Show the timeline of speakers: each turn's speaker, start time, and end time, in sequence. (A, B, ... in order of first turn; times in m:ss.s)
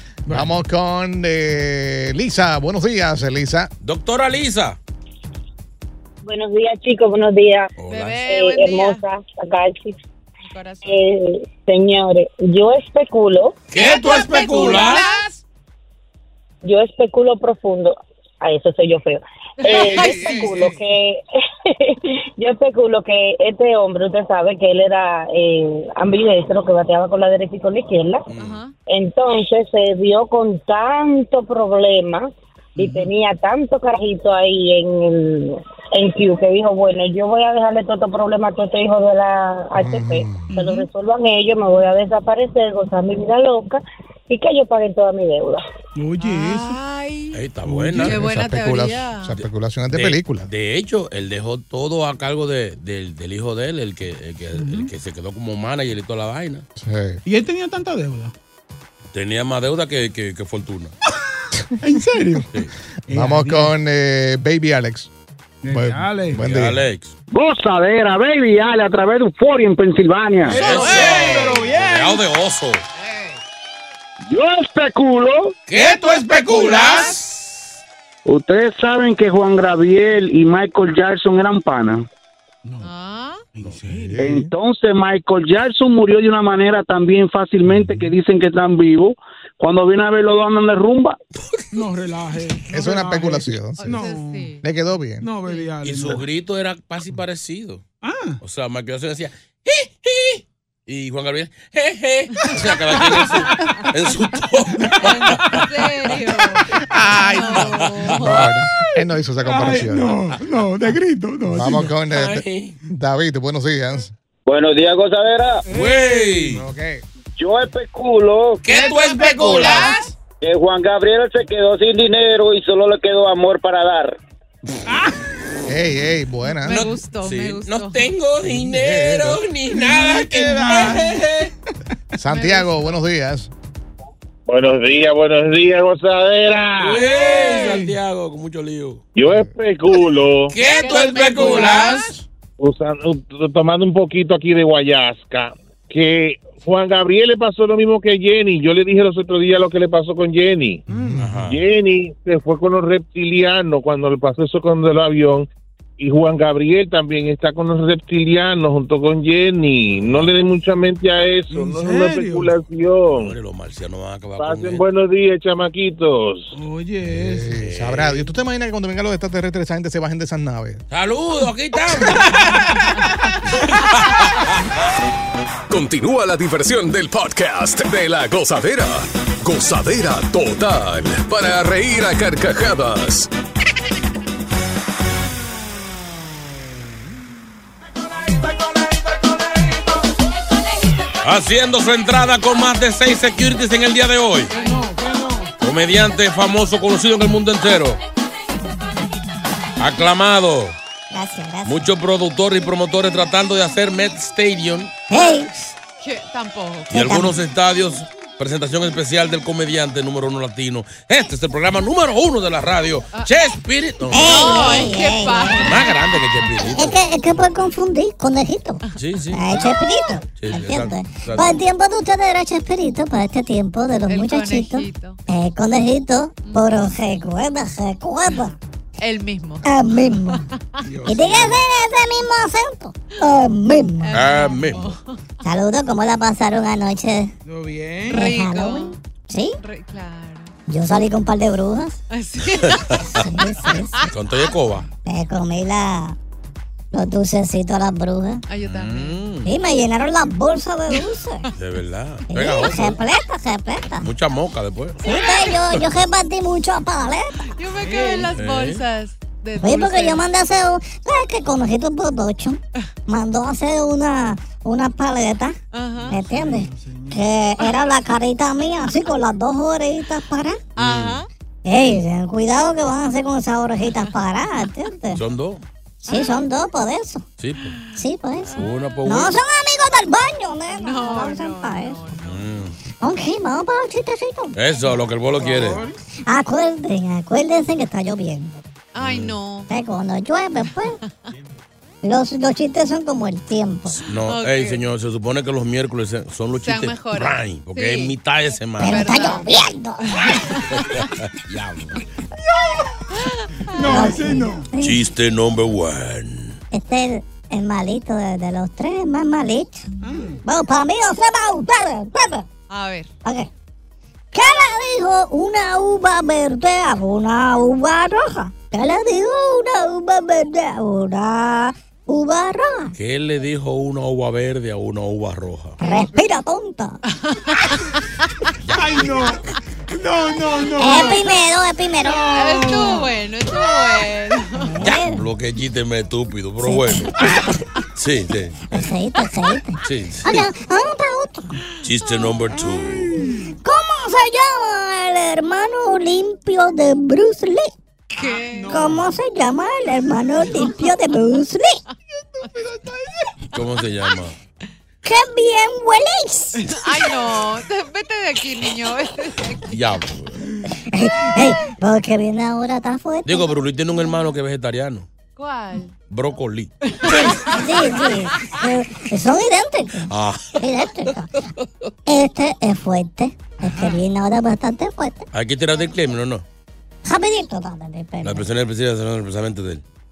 0:00.3-0:00.6 A
0:00.3-0:03.7 B
0:03.8-0:04.8 C
0:06.2-0:07.7 D
0:07.8-0:08.3 C
0:07.9-0:09.0 E
0:08.3-0:09.9 D
0:10.4-0:11.0 E
0:10.8-0:13.6 D
0:13.7-0:15.1 C
0:13.8-0:15.4 E
0:16.6-0:28.2 D
0:19.6-0:20.6 E
0:19.8-0:20.8 A
0:28.3-0:28.6 C
0:28.4-0:28.7 E
0:28.9-0:45.6 D
0:32.8-0:33.1 A
0:39.8-0:40.5 B
0:40.5-0:40.9 A
0:45.9-0:46.8 A
0:46.2-0:47.4 E
0:47.3-0:48.2 C
0:47.6-0:48.2 A
0:48.0-0:49.4 E
0:48.0-0:50.5 B
0:49.9-0:56.6 C
0:54.5-0:54.9 A
0:56.8-0:57.2 B
0:57.2-0:58.3 A
0:59.1-1:00.9 C
1:01.8-1:02.5 A
1:03.1-1:05.1 B
1:03.1-1:03.7 A
1:05.6-1:06.4 A
1:05.7-1:06.8 B
1:06.3-1:07.1 C
1:07.3-1:10.6 F
1:10.4-1:12.2 A
1:10.4-1:12.8 C
1:15.7-1:17.4 C
1:15.8-1:17.2 A
1:18.2-1:22.1 F
1:22.6-1:22.9 A
1:22.8-1:23.4 E
1:23.6-1:24.2 A
1:23.8-1:24.5 B
1:24.2-1:31.2 F
1:27.7-1:28.1 B
1:31.7-1:34.5 A
1:32.7-1:34.1 B
1:33.8-1:34.6 E
1:34.6-1:35.3 B
1:35.2-1:36.2 A
1:35.4-1:35.7 E
1:35.8-1:37.8 C
1:38.0-1:38.4 A
1:38.4-1:46.2 C
1:42.6-1:43.4 A
1:43.5-1:43.8 E
1:44.7-1:45.7 A
1:45.0-1:48.5 E
1:46.9-1:50.4 B
1:46.9-1:47.6 A
1:47.6-1:48.5 C
1:48.7-1:52.0 A
1:51.5-1:54.1 B
1:52.1-1:52.8 C
1:54.5-1:55.6 G
1:55.7-1:56.6 C
1:55.7-1:56.6 A
1:56.5-1:57.0 B
1:57.4-1:58.6 G
1:58.6-2:00.0 C
1:58.7-2:00.1 A
2:00.4-2:04.1 G
2:04.9-2:05.1 A
2:05.6-2:06.9 B
2:06.6-2:08.1 E
2:06.7-2:11.5 C
2:08.4-2:09.4 B
2:09.7-2:11.2 A
2:12.1-2:13.5 B
2:12.2-2:13.0 E
2:14.5-2:17.0 H
2:16.8-2:19.0 C
2:17.1-2:17.9 A
2:19.1-2:20.5 H
2:19.3-2:19.5 B
2:20.5-2:22.1 C
2:20.6-2:22.0 E
2:22.6-2:30.8 H
2:30.9-2:31.4 B
2:30.9-2:31.3 A
2:31.2-2:31.6 C
2:31.4-2:35.5 H
2:36.0-2:43.3 H
2:40.0-2:40.3 C
2:41.5-2:42.5 A
2:43.1-2:44.8 C
2:44.4-2:46.5 H
2:46.5-2:47.5 A
2:47.0-2:50.8 B
2:47.6-2:48.3 C
2:50.9-2:52.8 C
2:52.1-2:52.7 A
2:53.5-2:54.5 C
2:55.7-3:03.3 I
3:11.2-3:14.5 C
3:14.5-3:15.5 A
3:15.6-3:18.0 C
3:19.8-3:20.8 C
3:21.1-3:21.8 J
3:21.6-3:24.9 C
3:25.1-3:25.7 J
3:26.0-3:27.1 E
3:26.9-3:34.9 C
3:26.9-3:27.3 J
3:34.1-3:35.7 J
3:34.2-3:35.9 E
3:35.6-3:37.0 C
3:36.6-3:48.5 J
3:39.0-3:39.6 C
3:40.4-3:41.6 C
3:44.1-3:45.2 E
3:46.4-3:46.9 E
3:49.0-3:49.6 E
3:49.6-3:50.5 J
3:50.3-3:50.8 E
3:50.8-3:51.6 A
3:51.0-3:54.1 J
3:54.0-3:55.2 E
3:54.1-3:55.0 C
3:55.4-3:57.3 J
3:57.4-3:58.2 A
3:58.1-3:59.0 E
3:58.1-3:59.6 J
3:59.6-4:00.5 E
4:00.7-4:02.0 J
4:02.1-4:04.1 E
4:02.6-4:03.2 C
4:03.2-4:04.0 J
4:04.1-4:04.9 C
4:05.0-4:06.2 J
4:06.9-4:08.4 J
4:08.5-4:09.2 E
4:08.6-4:09.5 C
4:09.4-4:11.5 J
4:11.6-4:13.0 C
4:12.3-4:14.1 J
4:14.0-4:15.0 C
4:15.0-4:17.3 J
4:17.4-4:20.2 E
4:17.8-4:18.4 A
4:18.3-4:18.8 C
4:19.6-4:25.6 J
4:25.7-4:26.2 E
4:26.0-4:27.2 A
4:26.1-4:30.6 J
4:30.8-4:31.3 E
4:30.8-4:31.2 C
4:31.6-4:35.2 J
4:33.9-4:34.2 E
4:35.1-4:35.6 C
4:36.0-4:37.2 J
4:36.1-4:36.5 E
4:37.4-4:37.8 C
4:37.8-4:38.7 E
4:37.9-4:42.1 J
4:38.6-4:39.4 C
4:40.8-4:42.5 E
4:42.2-4:42.8 C
4:43.0-4:44.6 J
4:44.6-4:45.8 C
4:45.4-4:45.9 A
4:45.4-4:48.6 J
4:48.9-4:49.7 E
4:49.0-4:49.3 C
4:49.7-4:51.0 J
4:52.0-4:54.0 J
4:54.0-4:59.2 C
4:54.3-4:54.8 E
4:56.6-4:58.2 E
4:58.8-5:00.4 J
4:58.8-4:59.5 E
5:00.0-5:01.0 E
5:00.7-5:02.0 C
5:02.5-5:02.9 A
5:03.2-5:04.3 E
5:03.7-5:04.7 A
5:03.8-5:05.0 J
5:04.8-5:06.6 C
5:06.7-5:09.8 J
5:10.0-5:10.4 A
5:10.4-5:12.4 J
5:12.7-5:13.1 E
5:14.3-5:22.9 J
5:23.0-5:25.8 C
5:25.8-5:27.0 J
5:27.3-5:28.0 E
5:28.7-5:31.3 A
5:30.8-5:32.8 J
5:30.9-5:31.2 E
5:32.0-5:33.0 A
5:32.2-5:34.8 E
5:33.6-5:34.0 A
5:34.5-5:35.2 J
5:34.8-5:37.1 C
5:36.6-5:37.6 J
5:38.0-5:38.8 C
5:38.7-5:41.5 J
5:39.8-5:40.5 C
5:41.8-5:43.2 C
5:42.7-5:43.4 A
5:43.2-5:48.2 J
5:48.2-5:48.9 E
5:48.2-5:49.1 A
5:48.7-5:51.8 J
5:52.4-5:53.3 A
5:53.5-5:54.3 C
5:55.0-5:57.1 J
5:56.6-5:59.6 E
5:59.7-6:00.4 C
6:00.8-6:03.6 J
6:03.2-6:05.0 C
6:05.4-6:05.9 E
6:06.1-6:06.7 C
6:06.9-6:07.7 E
6:07.0-6:11.3 J
6:10.1-6:11.1 C
6:12.0-6:15.3 J
6:13.7-6:14.0 E
6:15.3-6:16.4 C
6:17.0-6:18.5 J
6:18.2-6:19.8 C